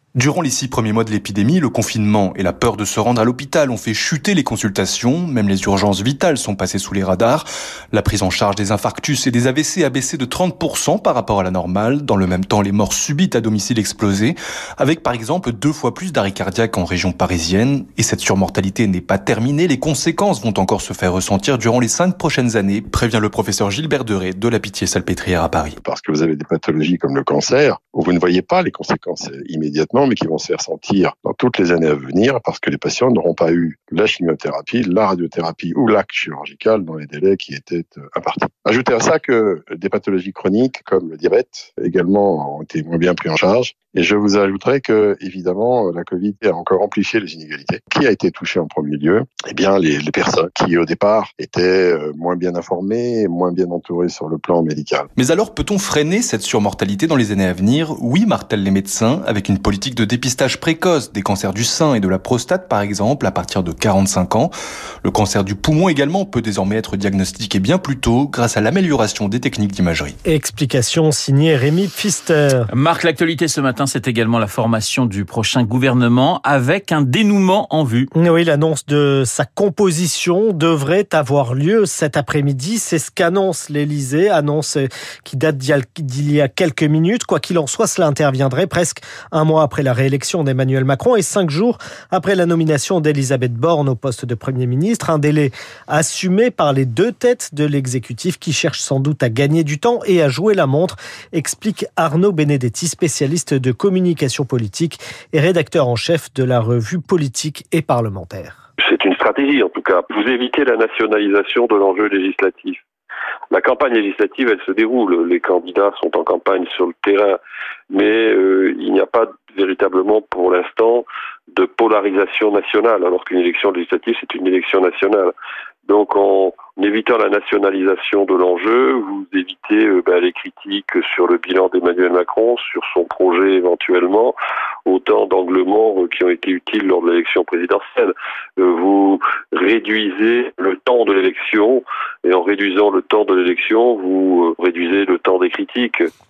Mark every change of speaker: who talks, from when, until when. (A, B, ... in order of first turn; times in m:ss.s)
0:00.1-0:25.8 A
0:25.8-0:55.1 B
0:55.2-1:10.2 A
1:10.2-1:12.7 C
1:12.7-1:18.1 D
1:18.1-1:48.6 C
1:48.8-1:52.8 E
1:53.5-1:57.4 E
1:57.9-2:05.3 E
2:05.8-2:26.1 E